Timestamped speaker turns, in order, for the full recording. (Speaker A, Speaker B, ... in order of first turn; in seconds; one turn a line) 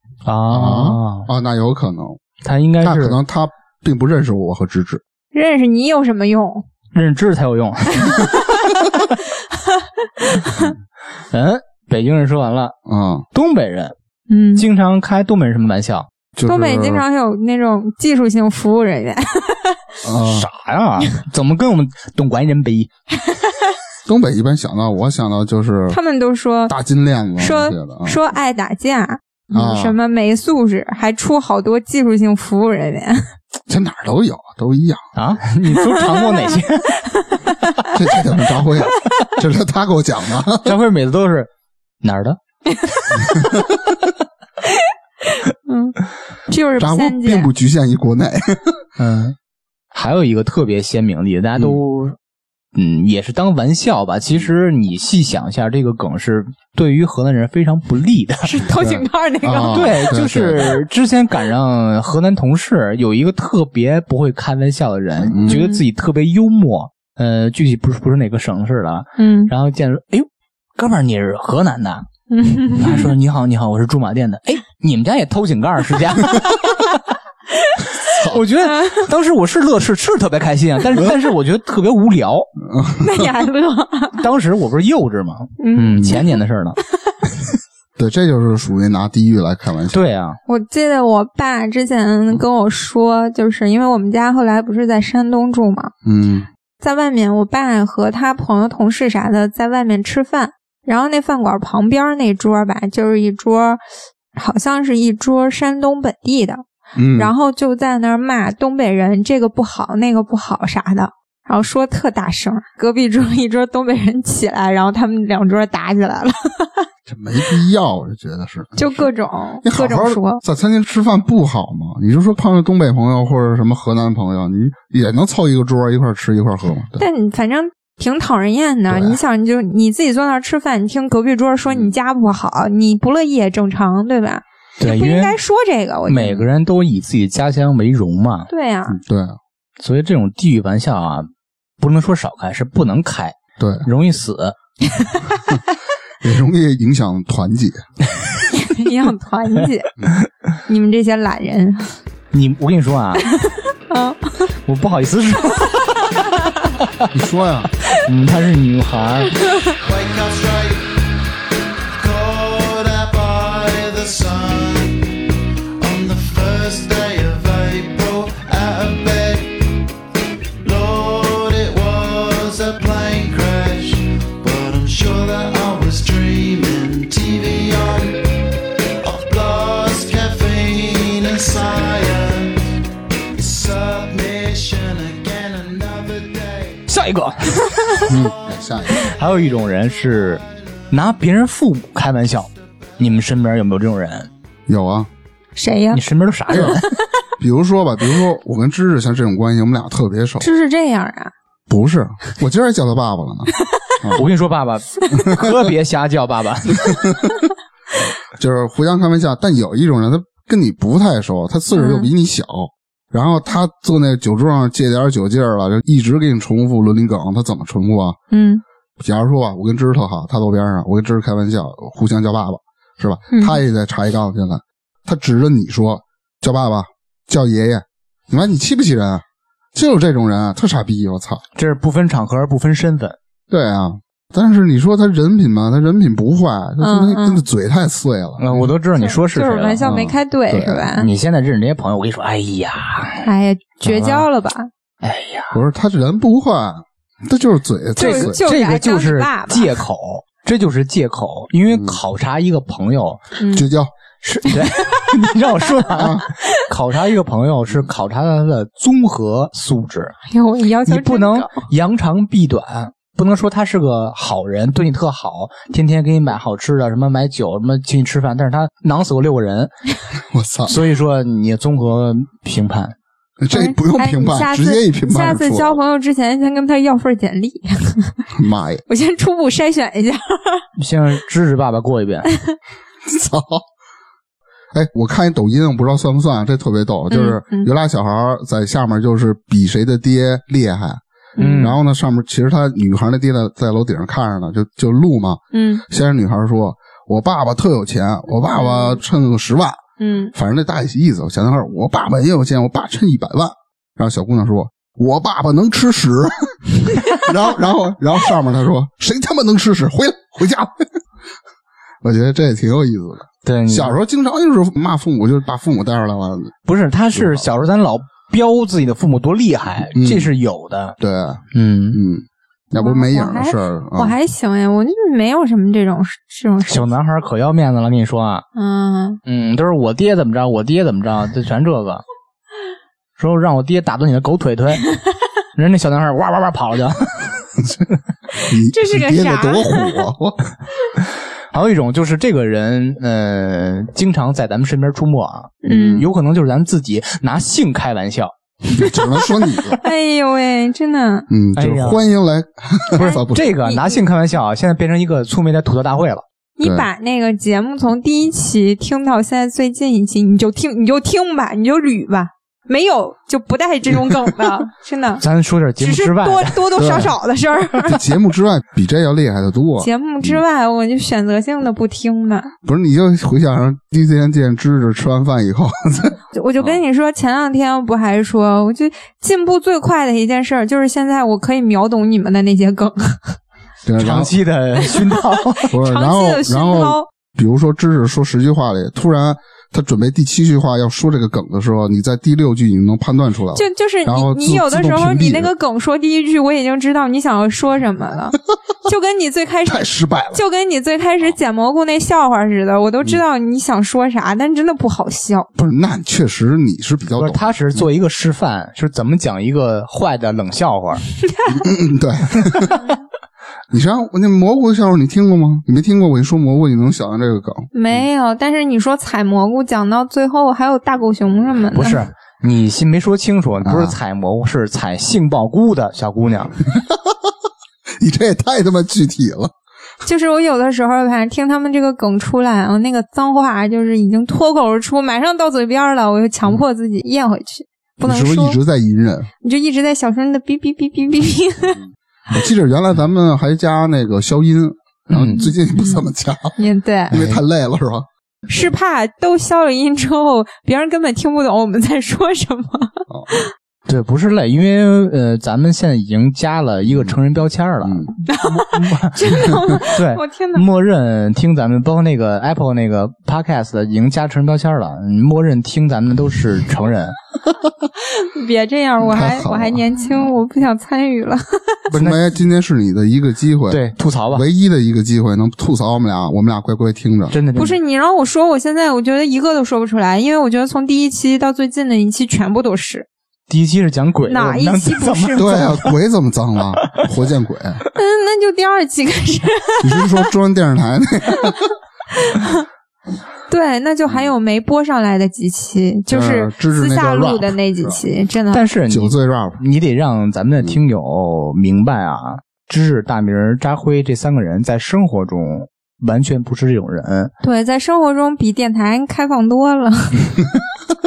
Speaker A: 0.2-1.3
Speaker B: 0.5-2.2
Speaker A: 2.4-3.2
Speaker B: 2.8-5.0
Speaker C: 5.3-6.7
Speaker A: 6.9-9.1
Speaker C: 8.0-8.5
Speaker C: 9.3-10.7
Speaker A: 11.3-12.8
Speaker B: 12.8-13.3
Speaker A: 13.3-13.9
Speaker C: 14.3-14.6
Speaker A: 14.6-16.1
Speaker B: 16.4-17.0
Speaker C: 16.4-19.8
Speaker B: 20.0-20.5
Speaker A: 20.2-22.9
Speaker B: 24.1-26.0
Speaker C: 25.9-26.8
Speaker B: 26.7-28.2
Speaker C: 27.4-33.3
Speaker B: 29.5-29.9
Speaker B: 33.7-35.0
Speaker A: 35.1-37.0
Speaker C: 35.7-38.0
Speaker B: 37.9-40.7
Speaker A: 40.6-41.5
Speaker A: 42.0-42.4
Speaker C: 42.7-43.6
Speaker B: 43.2-43.7
Speaker C: 44.7-46.0
Speaker C: 46.5-47.5
Speaker B: 46.8-48.8
Speaker A: 49.0-49.3
Speaker A: 49.9-52.1
Speaker A: 52.7-58.6
Speaker C: 58.4-60.1
Speaker B: 58.7-60.8
Speaker A: 59.7-72.1
Speaker B: 65.2-65.6
Speaker C: 65.5-65.8
Speaker C: 69.2-69.5
Speaker C: 72.3-73.0
Speaker A: 72.7-77.1
Speaker B: 72.8-73.1
Speaker A: 78.0-82.5
Speaker B: 78.1-78.4
Speaker C: 78.6-79.1
Speaker B: 82.6-83.3
Speaker C: 83.0-84.2
Speaker A: 84.2-86.8
Speaker C: 85.6-86.4
Speaker B: 88.0-90.0
Speaker A: 89.9-90.4
Speaker C: 90.5-95.9
Speaker B: 96.0-96.5
Speaker C: 96.8-103.8
Speaker C: 104.3-106.6
Speaker B: 107.0-107.3
Speaker C: 107.1-116.9
Speaker B: 117.1-119.1
Speaker C: 118.8-120.4
Speaker B: 119.6-127.0
Speaker C: 127.0-136.5
Speaker B: 128.9-129.2
Speaker A: 134.8-135.3
Speaker A: 136.1-138.5
Speaker C: 138.5-139.0
Speaker B: 138.9-139.4
Speaker A: 139.8-144.6
Speaker B: 143.6-143.8
Speaker C: 144.9-145.4
Speaker B: 146.2-147.8
Speaker C: 148.5-149.9
Speaker C: 150.7-151.9
Speaker A: 152.3-153.2
Speaker C: 153.2-154.5
Speaker A: 154.7-157.1
Speaker B: 157.1-157.7
Speaker A: 157.9-159.3
Speaker C: 159.5-159.8
Speaker D: 159.8-161.0
Speaker D: 161.9-165.2
Speaker D: 165.8-169.8
Speaker D: 170.6-178.5
Speaker D: 179.0-182.8
Speaker D: 183.3-186.8
Speaker A: 186.9-188.1
Speaker B: 188.1-189.1
Speaker A: 188.9-194.3
Speaker B: 194.7-195.1
Speaker C: 195.6-196.8
Speaker A: 195.9-196.9
Speaker B: 196.5-196.8
Speaker B: 197.4-200.5
Speaker C: 200.4-201.3
Speaker B: 201.7-204.2
Speaker C: 203.6-203.9
Speaker A: 204.1-207.1
Speaker B: 205.1-205.5
Speaker B: 206.8-207.4
Speaker B: 208.3-218.2
Speaker C: 211.7-212.1
Speaker C: 218.3-218.6
Speaker B: 219.0-229.2
Speaker C: 223.3-223.6
Speaker B: 229.7-231.4
Speaker A: 231.6-233.2
Speaker B: 233.5-238.7
Speaker C: 236.8-237.4
Speaker A: 238.4-239.9
Speaker C: 238.9-241.1
Speaker B: 239.8-240.9
Speaker A: 241.0-243.3
Speaker C: 243.2-244.7
Speaker A: 243.8-244.2
Speaker A: 245.0-245.6
Speaker B: 245.5-248.4
Speaker C: 247.9-249.8
Speaker A: 248.0-253.3
Speaker B: 251.7-252.0
Speaker C: 253.4-253.7
Speaker B: 253.5-253.9
Speaker A: 254.2-260.1
Speaker C: 254.5-255.1
Speaker B: 255.9-256.2
Speaker C: 260.3-261.6
Speaker A: 260.9-269.7
Speaker B: 270.3-270.7
Speaker A: 270.7-272.9
Speaker B: 273.4-275.8
Speaker C: 273.5-278.2
Speaker B: 278.3-278.8
Speaker C: 278.9-280.6
Speaker A: 280.8-282.3
Speaker C: 282.3-282.6
Speaker B: 283.0-283.6
Speaker B: 284.7-291.0
Speaker C: 287.1-287.7
Speaker C: 291.4-291.7
Speaker A: 291.4-291.8
Speaker B: 291.6-299.8
Speaker C: 295.5-295.8
Speaker C: 298.5-299.0
Speaker C: 300.0-300.3
Speaker B: 300.3-311.0
Speaker B: 312.0-316.5
Speaker A: 313.4-313.9
Speaker A: 316.7-321.0
Speaker B: 317.1-317.5
Speaker B: 319.9-320.3
Speaker B: 321.0-324.1
Speaker A: 321.5-322.0
Speaker C: 322.8-326.9
Speaker A: 326.7-328.4
Speaker C: 328.5-329.2
Speaker A: 329.2-332.0
Speaker A: 333.2-334.8
Speaker A: 335.5-337.4
Speaker C: 338.4-340.1
Speaker B: 338.5-340.4
Speaker A: 341.5-348.3
Speaker C: 345.6-346.1
Speaker B: 345.7-346.0
Speaker B: 348.7-349.8
Speaker C: 348.8-351.3
Speaker B: 351.3-353.5
Speaker A: 351.6-352.1
Speaker A: 352.9-356.2
Speaker C: 352.9-354.0
Speaker C: 356.6-365.2
Speaker B: 356.6-356.9
Speaker A: 365.2-367.1
Speaker C: 365.8-368.0
Speaker B: 366.8-367.1
Speaker B: 367.8-370.4
Speaker C: 369.8-372.5
Speaker B: 372.6-376.8
Speaker C: 376.3-383.4
Speaker B: 383.8-384.3
Speaker A: 384.0-385.7
Speaker C: 384.8-387.1
Speaker B: 385.7-395.5
Speaker C: 393.5-405.5
Speaker B: 399.6-400.4
Speaker B: 405.6-407.9
Speaker A: 407.2-411.0
Speaker C: 411.2-411.6
Speaker B: 411.5-412.8
Speaker A: 412.4-412.7
Speaker B: 413.7-418.0
Speaker C: 417.7-422.0
Speaker A: 421.7-426.6
Speaker B: 423.6-423.9
Speaker B: 426.7-427.1
Speaker B: 428.0-429.5
Speaker C: 430.0-438.6
Speaker B: 438.0-439.3
Speaker C: 439.4-441.8
Speaker B: 442.3-446.6
Speaker A: 445.1-445.5
Speaker C: 445.4-446.0
Speaker C: 446.6-447.2
Speaker B: 447.1-448.1
Speaker A: 447.1-447.4
Speaker C: 448.5-453.5
Speaker B: 453.1-453.4
Speaker A: 453.9-467.2
Speaker B: 456.9-457.1
Speaker B: 457.8-458.1
Speaker C: 458.3-460.6
Speaker C: 468.0-471.9
Speaker B: 469.0-469.9
Speaker B: 471.9-477.4
Speaker A: 471.9-472.3
Speaker A: 473.7-474.4
Speaker A: 477.3-477.8
Speaker C: 477.5-483.1
Speaker A: 483.5-485.9
Speaker C: 484.3-485.6
Speaker B: 485.4-487.8
Speaker C: 487.9-490.3
Speaker B: 489.8-491.7
Speaker C: 492.2-492.6
Speaker C: 493.5-498.7
Speaker B: 496.1-498.0
Speaker A: 498.5-507.3
Speaker B: 498.9-499.6
Speaker C: 507.4-510.4